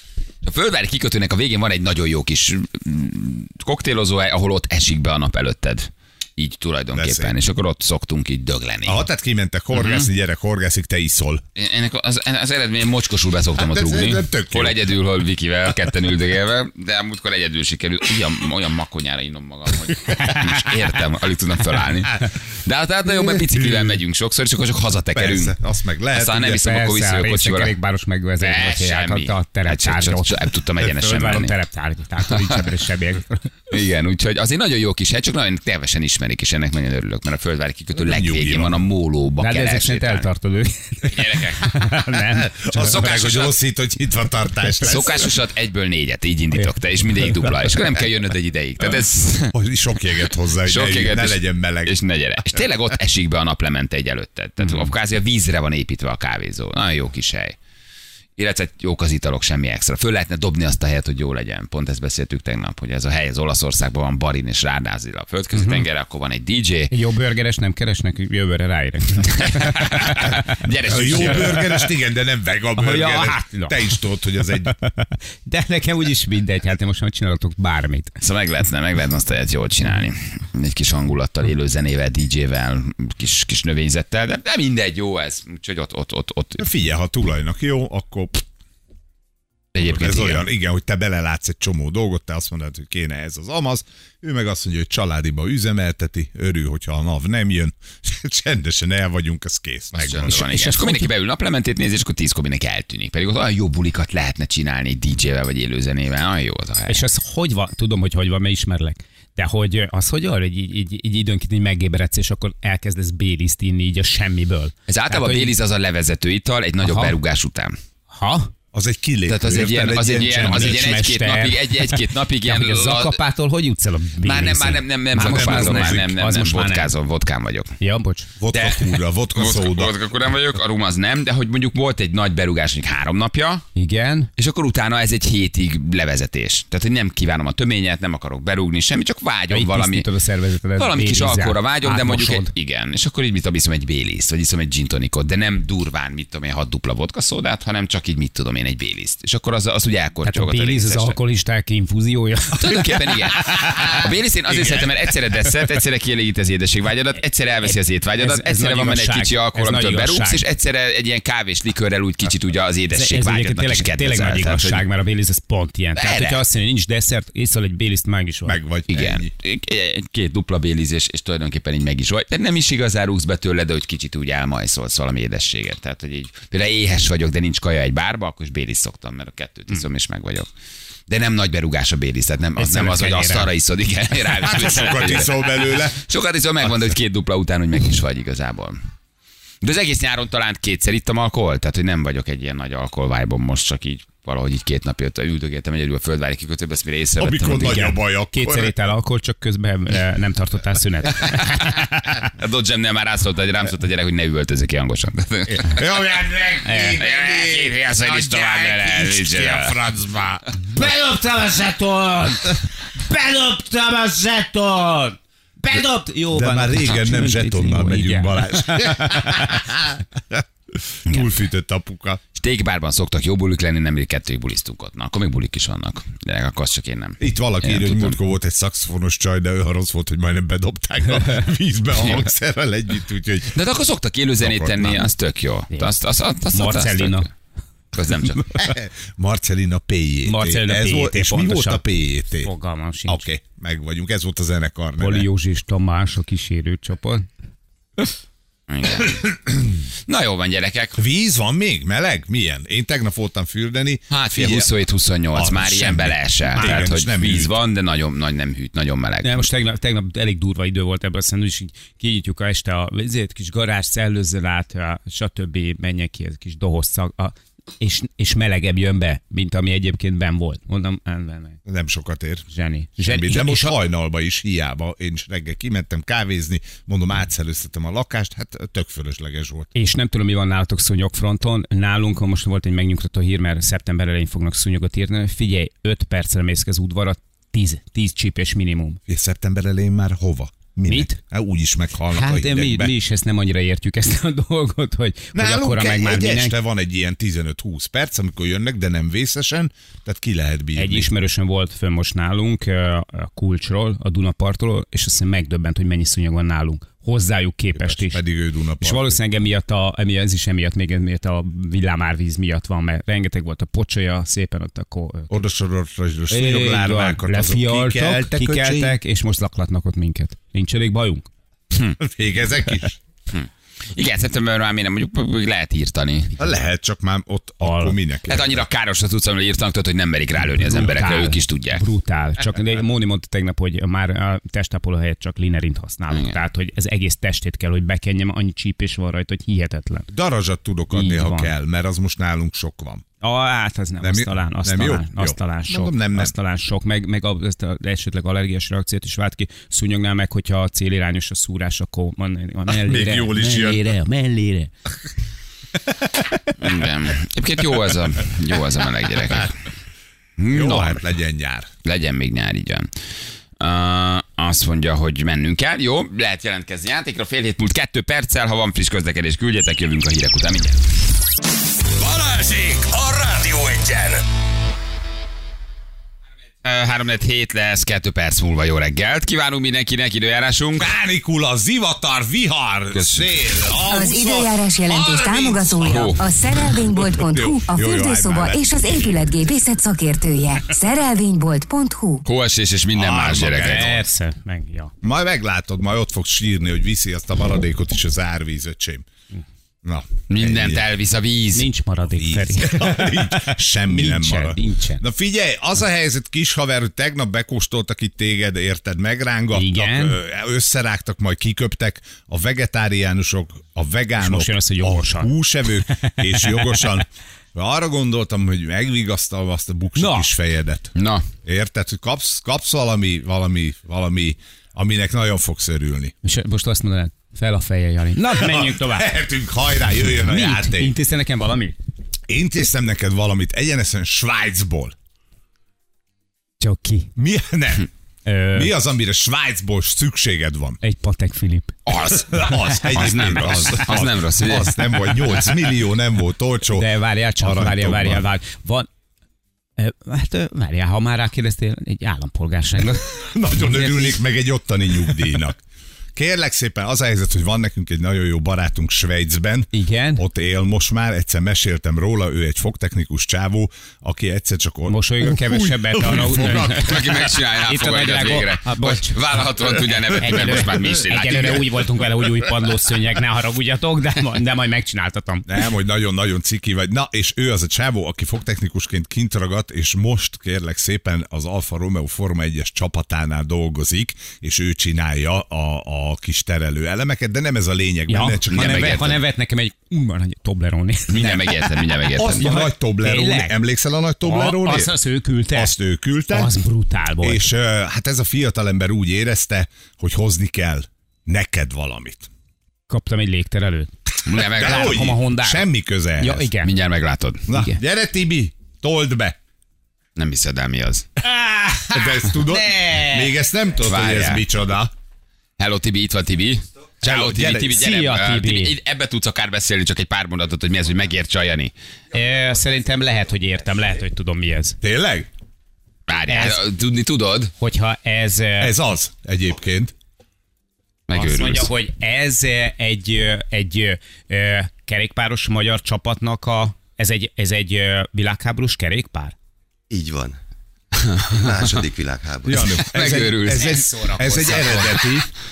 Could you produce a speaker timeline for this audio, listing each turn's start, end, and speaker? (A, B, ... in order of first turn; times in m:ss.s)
0:00.4-0:09.0 A
0:06.9-0:07.4 B
0:08.9-0:11.4 B
0:11.6-0:25.6 A
0:13.6-0:14.8 B
0:23.1-0:24.0 B
0:25.1-0:26.6 B
0:26.1-0:27.8 A
0:26.4-0:33.5 C
0:28.4-0:31.5 A
0:32.3-0:32.6 A
0:33.7-0:40.3 A
0:38.0-0:38.8 B
0:39.4-0:42.9 C
0:41.0-0:41.7 A
0:42.4-0:45.2 B
0:42.8-0:43.6 A
0:44.8-0:49.6 A
0:47.3-0:47.7 C
0:49.5-0:52.0 B
0:50.7-0:57.6 A
0:58.4-1:06.9 A
1:05.5-1:05.8 C
1:06.9-1:10.6 C
1:09.2-1:11.6 A
1:10.9-1:14.7 B
1:11.2-1:11.8 C
1:12.8-1:18.2 C
1:18.2-1:26.6 A
1:26.6-1:28.4 B
1:29.8-1:30.4 A
1:29.8-1:40.4 B
1:40.0-1:47.0 A
1:40.3-1:41.1 C
1:46.9-1:55.5 C
1:54.9-1:57.8 A
1:56.8-1:57.2 C
1:58.1-1:58.5 C
1:58.7-2:00.9 B
1:59.3-2:03.2 A
2:00.4-2:06.9 C
2:04.2-2:07.8 A
2:05.2-2:06.1 B
2:07.8-2:08.3 C
2:08.4-2:10.0 B
2:08.5-2:13.7 A
2:13.8-2:14.3 C
2:14.4-2:20.1 A
2:19.5-2:22.5 C
2:20.8-2:31.2 A
2:30.2-2:32.8 C
2:32.6-2:44.8 A
2:33.6-2:33.9 B
2:34.5-2:35.0 B
2:38.2-2:40.4 C
2:42.9-2:48.6 C
2:46.0-2:46.4 A
2:48.4-2:49.3 B
2:48.9-3:00.5 A
3:01.1-3:08.8 A
3:02.6-3:03.5 C
3:04.4-3:06.0 B
3:09.6-3:17.8 A
3:17.2-3:18.7 B
3:17.6-3:22.0 C
3:21.2-3:25.9 A
3:25.5-3:31.0 B
3:26.6-3:27.0 C
3:27.0-3:29.8 A
3:30.7-3:39.6 C
3:35.7-3:42.2 B
3:42.4-3:48.2 A
3:47.2-3:53.6 B
3:53.5-3:57.3 A
3:54.4-3:55.0 B
3:56.5-3:57.3 C
3:57.9-3:58.5 A
3:58.6-4:02.5 B
4:00.2-4:03.2 C
4:03.1-4:05.3 B
4:05.0-4:07.3 C
4:08.7-4:09.4 A
4:10.1-4:11.0 A
4:11.0-4:14.7 B
4:14.1-4:19.5 A
4:15.3-4:17.5 B
4:16.6-4:16.9 C
4:19.2-4:31.6 C
4:31.7-4:32.4 B
4:32.5-4:33.8 C
4:33.0-4:39.7 B
4:39.8-4:49.0 C
4:49.1-4:52.9 B
4:50.9-4:51.2 C
4:52.1-4:56.6 C
4:55.3-5:01.1 B
5:00.8-5:08.2 C
5:07.8-5:09.2 B
5:08.8-5:15.4 C
5:15.3-5:19.0 B
5:16.3-5:21.3 C
5:22.0-5:23.0 B
5:23.3-5:26.4 A
5:26.4-5:28.6 B
5:27.6-5:28.0 C
5:28.3-5:31.8 A
5:30.5-5:40.1 C
5:36.1-5:36.4 A
5:40.1-5:43.0 B
5:40.9-5:41.5 C
5:43.2-5:54.7 C
5:44.0-5:46.3 B
5:52.7-5:54.0 B
5:55.9-5:56.2 B
5:56.6-5:59.6 A
6:00.4-6:01.0 A
6:00.5-6:01.7 B
6:01.8-6:02.9 A
6:03.6-6:10.8 A
6:12.0-6:14.2 D
6:16.6-6:20.9 A
6:20.8-6:24.5 B
6:22.9-6:23.3 A
6:23.9-6:32.2 E
6:24.9-6:26.2 A
6:27.2-6:29.2 B
6:32.2-6:34.0 A
6:32.9-6:34.0 B
6:33.6-6:34.9 C
6:35.0-6:39.1 B
6:39.8-6:40.8 B
6:40.3-6:41.7 A
6:41.6-6:45.0 C
6:42.2-7:00.9 B
6:49.5-6:50.2 C
6:54.2-6:55.4 C
6:55.9-6:56.9 C
7:00.0-7:00.3 C
7:01.0-7:01.2 A
7:01.4-7:06.1 B
7:06.2-7:09.1 C
7:08.3-7:10.9 B
7:10.2-7:11.8 C
7:12.3-7:15.0 B
7:16.6-7:17.1 C
7:17.2-7:17.9 B
7:18.3-7:18.7 C
7:18.5-7:20.8 B
7:20.8-7:21.8 C
7:21.9-7:24.8 A
7:22.1-7:26.9 B
7:26.7-7:28.9 C
7:27.4-7:28.2 B
7:29.8-7:34.2 C
7:33.1-7:35.6 B
7:36.2-7:47.1 B
7:39.7-7:40.2 C
7:44.9-7:49.2 C
7:46.6-7:51.9 A
7:50.2-7:55.5 C
7:55.5-8:09.2 B
8:08.1-8:11.6 C
8:08.5-8:09.1 A
8:11.1-8:12.5 A
8:12.2-8:14.9 B
8:12.4-8:13.6 C
8:14.2-8:15.8 C
8:15.5-8:16.5 B
8:16.3-8:17.5 C
8:17.2-8:22.3 B
8:22.9-8:23.9 C
8:24.2-8:25.0 A
8:24.3-8:26.5 B
8:24.5-8:26.7 C
8:26.6-8:27.5 A
8:27.5-8:29.4 B
8:27.5-8:27.8 C
8:30.2-8:31.1 A
8:31.2-8:33.4 C
8:31.9-8:34.9 B
8:33.8-8:34.4 A
8:35.6-8:41.7 A
8:37.0-8:37.8 B
8:37.7-8:38.8 C
8:42.1-8:44.8 C
8:44.8-8:45.3 B
8:46.1-8:47.5 A
8:46.3-8:46.6 C
8:47.6-8:48.8 C
8:48.6-8:49.9 B
8:51.1-8:51.7 A
8:51.1-8:59.4 C
8:59.9-9:00.4 F
9:01.0-9:01.7 A
9:01.3-9:02.7 F
9:02.5-9:05.3 B
9:02.8-9:03.8 A
9:03.5-9:05.0 C